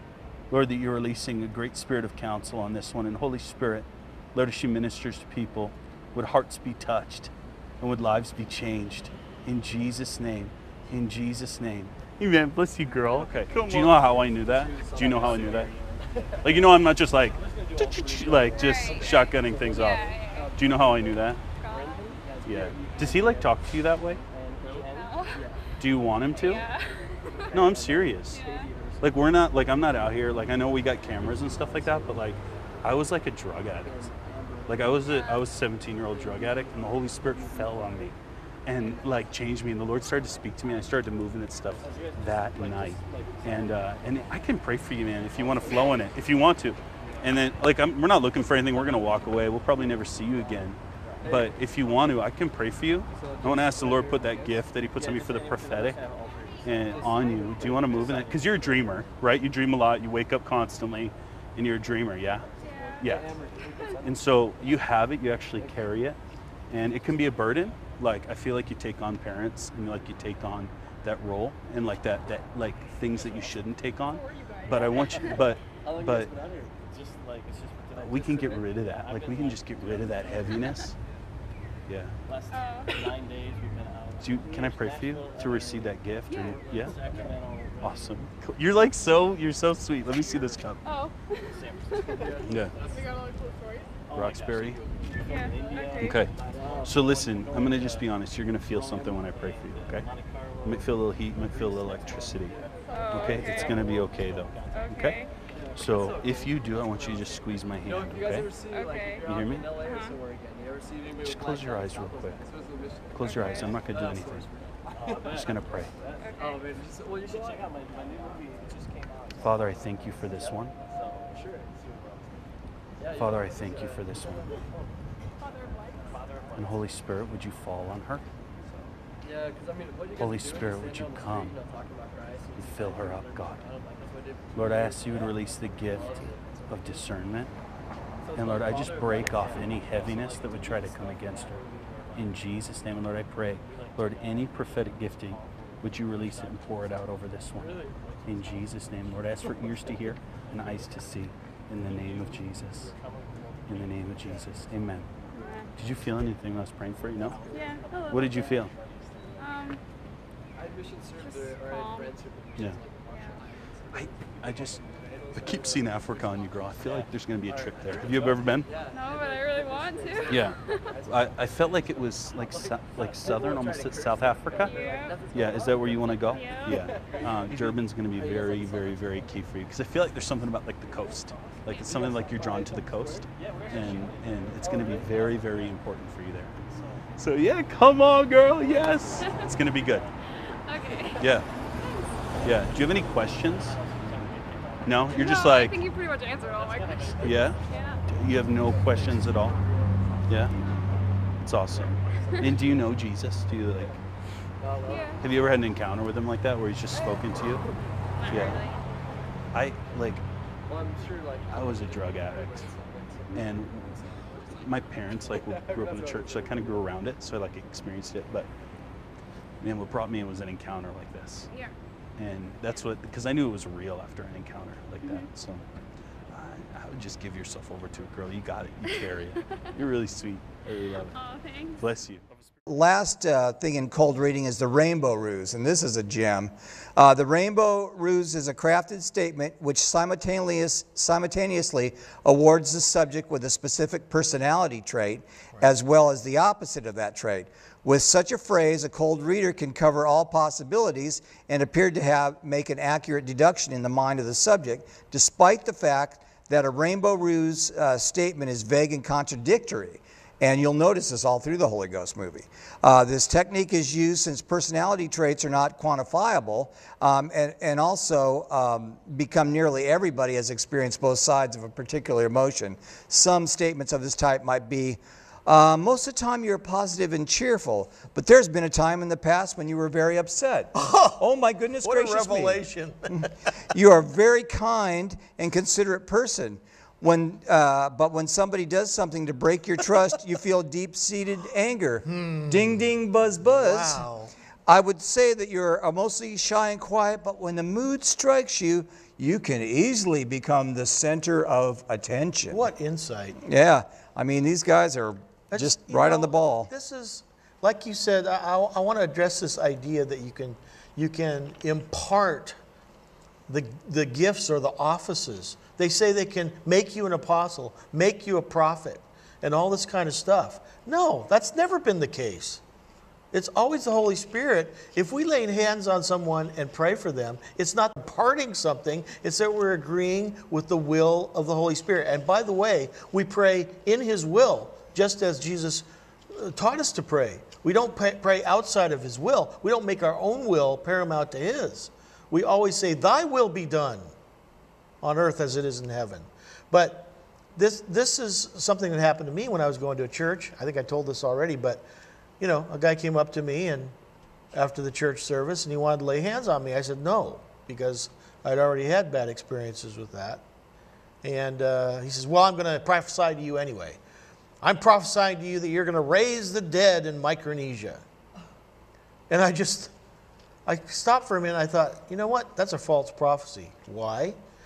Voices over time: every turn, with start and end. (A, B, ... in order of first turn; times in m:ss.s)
0:00.5-0:15.7 A
0:12.8-0:23.7 B
0:16.4-0:21.4 A
0:18.6-0:19.1 C
0:19.7-0:20.5 C
0:21.6-0:22.2 C
0:22.4-0:24.2 A
0:24.3-0:25.7 B
0:24.8-0:25.4 C
0:25.8-0:26.6 A
0:26.3-0:27.5 C
0:27.5-0:30.0 B
0:27.5-0:28.4 A
0:28.3-0:28.7 C
0:29.0-0:34.1 A
0:31.2-0:32.9 B
0:33.8-0:35.4 B
0:34.7-0:56.0 A
0:35.1-0:35.4 C
0:36.0-0:38.1 B
0:41.8-0:44.3 B
0:45.2-0:46.2 B
0:46.9-0:47.4 B
0:51.0-0:51.7 B
0:53.1-0:59.2 B
0:56.6-1:02.5 A
1:02.5-1:04.8 B
1:02.6-1:02.9 C
1:03.0-1:03.3 A
1:04.0-1:06.2 A
1:05.5-1:06.0 B
1:06.7-1:16.3 A
1:13.0-1:13.7 B
1:14.1-1:15.3 C
1:14.7-1:21.2 B
1:18.0-1:20.9 A
1:21.9-1:22.2 A
1:22.2-1:28.3 B
1:22.5-1:22.9 C
1:24.2-1:27.3 A
1:26.3-1:26.6 C
1:27.8-1:30.8 A
1:30.1-1:30.7 B
1:30.8-1:32.1 C
1:31.5-1:33.3 B
1:32.4-1:32.8 A
1:32.9-1:33.9 C
1:34.0-1:44.8 B
1:34.1-1:34.8 A
1:35.1-1:36.2 C
1:36.0-1:45.2 A
1:42.9-1:43.8 C
1:44.7-1:45.3 C
1:45.5-2:02.3 B
1:45.7-1:48.5 A
1:48.6-1:49.2 C
1:49.2-1:49.7 A
1:49.8-1:50.2 C
1:51.2-1:52.4 A
1:53.1-1:54.5 A
1:53.2-1:53.7 C
1:55.2-1:55.9 A
1:56.2-1:56.6 C
1:59.4-2:00.7 A
2:03.0-2:04.9 B
2:03.2-2:04.5 A
2:05.4-2:06.1 C
2:06.0-2:06.8 B
2:06.5-2:08.2 A
2:08.6-2:17.4 B
2:10.2-2:11.6 A
2:12.6-2:13.6 A
2:14.5-2:17.5 A
2:18.2-2:22.5 B
2:18.3-2:32.9 A
2:23.6-2:34.8 B
2:33.7-2:35.1 A
2:35.3-2:35.7 C
2:35.8-2:37.4 A
2:37.1-2:39.5 B
2:37.5-2:38.6 C
2:38.0-2:38.7 A
2:39.4-2:39.8 C
2:40.5-2:59.4 B
2:41.2-2:42.1 C
2:43.1-2:43.4 C
2:43.9-2:44.8 A
2:45.3-2:48.7 A
2:48.8-2:50.8 C
2:50.3-3:06.6 A
2:54.6-2:55.2 C
2:56.3-2:56.7 C
3:00.9-3:05.8 B
3:06.6-3:07.1 B
3:07.2-3:10.1 A
3:08.5-3:10.0 B
3:09.2-3:09.5 C
3:10.6-3:11.2 C
3:11.2-3:11.4 A
3:12.4-3:13.8 A
3:12.4-3:15.7 B
3:14.8-3:15.8 A
3:15.1-3:18.0 C
3:16.4-3:20.5 B
3:17.2-3:19.6 A
3:20.3-3:20.5 A
3:21.4-3:24.0 A
3:21.6-3:22.9 B
3:23.7-3:24.0 B
3:24.6-3:25.4 B
3:24.8-3:25.2 C
3:25.2-3:27.6 A
3:26.9-3:27.6 B
3:28.2-3:28.8 C
3:28.3-3:28.6 A
3:29.5-3:30.2 A
3:30.6-3:36.9 B
3:31.5-3:32.6 A
3:33.3-3:38.5 A
3:39.6-3:41.5 A
3:41.5-3:41.7 C
3:42.2-3:45.6 A
3:45.0-3:45.3 C
3:46.3-3:51.2 A
3:48.9-3:49.7 C
3:51.1-3:51.8 C
3:51.8-3:52.2 A
3:52.7-4:54.1 D
4:40.7-4:41.2 E
4:41.8-4:43.3 E
4:52.0-4:52.8 E
4:53.4-4:54.3 E
4:54.7-5:02.6 D
5:02.5-5:03.4 E
5:03.4-5:06.7 D
5:05.5-5:12.6 E
5:13.5-5:22.6 E
5:23.3-5:44.1 E
5:45.0-5:51.8 E
5:52.4-5:53.9 E
5:54.5-6:00.4 E
6:01.2-6:04.0 E
6:04.6-6:08.0 E
6:09.3-6:09.9 E
6:10.6-6:14.4 E